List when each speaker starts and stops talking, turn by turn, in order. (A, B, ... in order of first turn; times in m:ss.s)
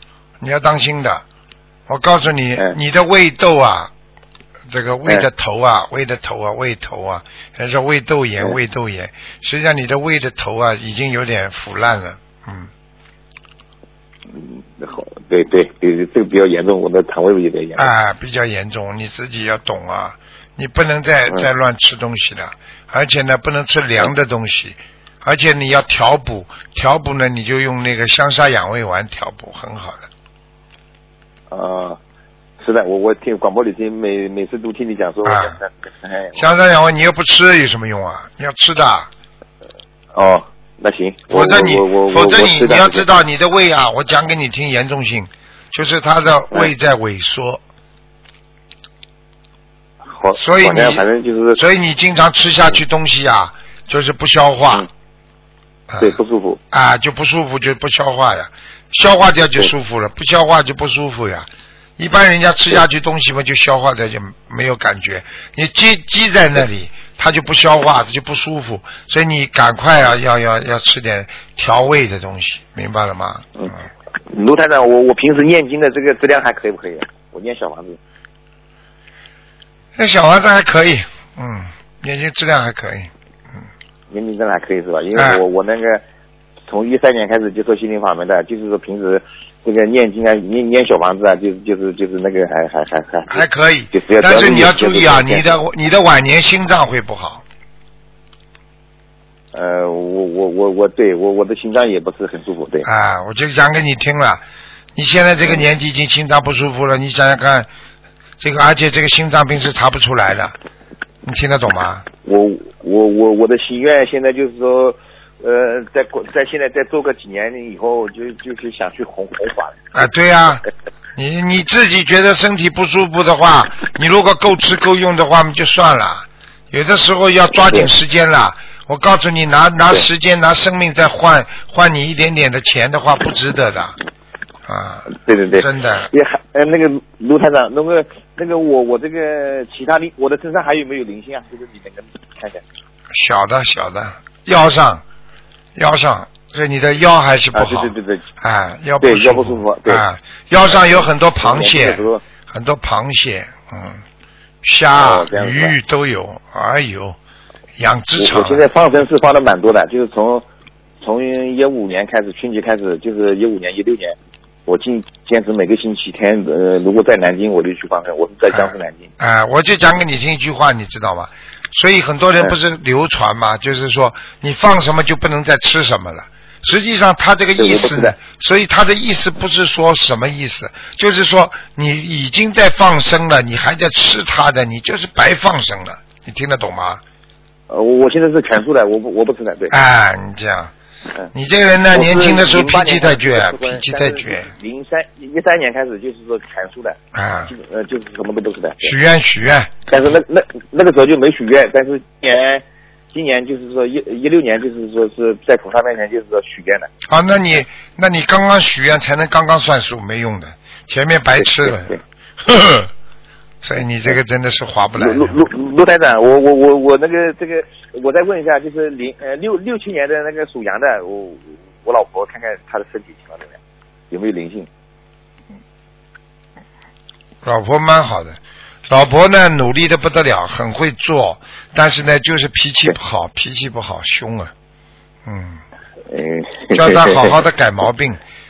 0:00.4-0:01.2 A
0:01.9-0:03.9 A
0:04.7-0:12.7 A
0:14.3-0:17.9 B
0:17.8-0:30.1 A
0:31.5-0:32.0 B
0:32.6-0:36.4 B
0:35.2-0:35.6 A
0:36.4-0:39.1 A
0:40.1-0:43.0 B
0:41.3-0:47.6 A
0:50.1-0:51.6 B
0:50.4-0:51.0 A
0:51.6-0:54.9 A
0:55.9-0:56.2 A
0:56.0-0:56.6 B
0:56.7-1:13.5 A
1:14.3-1:18.0 B
1:20.0-1:23.1 A
1:24.1-1:26.0 B
1:25.1-1:25.4 A
1:26.7-1:35.6 B
1:33.3-1:37.4 A
1:39.5-1:42.9 B
1:42.8-1:44.4 A
1:44.9-1:47.7 A
1:48.4-1:50.5 A
1:51.2-1:52.1 A
1:52.2-1:59.8 B
1:59.9-2:00.6 A
2:01.2-2:14.0 A
2:14.6-2:16.1 A
2:15.1-2:22.6 B
2:23.1-2:25.0 A
2:25.8-2:34.0 A
2:27.5-2:28.2 B
2:29.0-2:30.0 B
2:30.6-2:32.2 B
2:34.6-2:37.2 A
2:35.0-2:35.8 B
2:37.8-2:38.7 A
2:38.2-2:40.4 B
2:41.0-2:49.1 B
2:48.5-3:07.0 A
2:57.6-2:58.1 B
3:07.7-3:09.8 B
3:09.7-3:10.7 A
3:11.3-3:14.5 A
3:11.9-3:18.9 B
3:17.1-3:17.5 A
3:18.8-3:19.9 A
3:19.9-3:26.9 B
3:27.1-3:32.9 A
3:31.4-3:32.0 B
3:33.6-3:35.4 A
3:35.0-3:43.6 B
3:44.1-3:44.7 B
3:47.4-3:54.5 A
3:55.2-3:55.6 A
3:56.1-3:57.4 B
3:56.7-3:58.2 A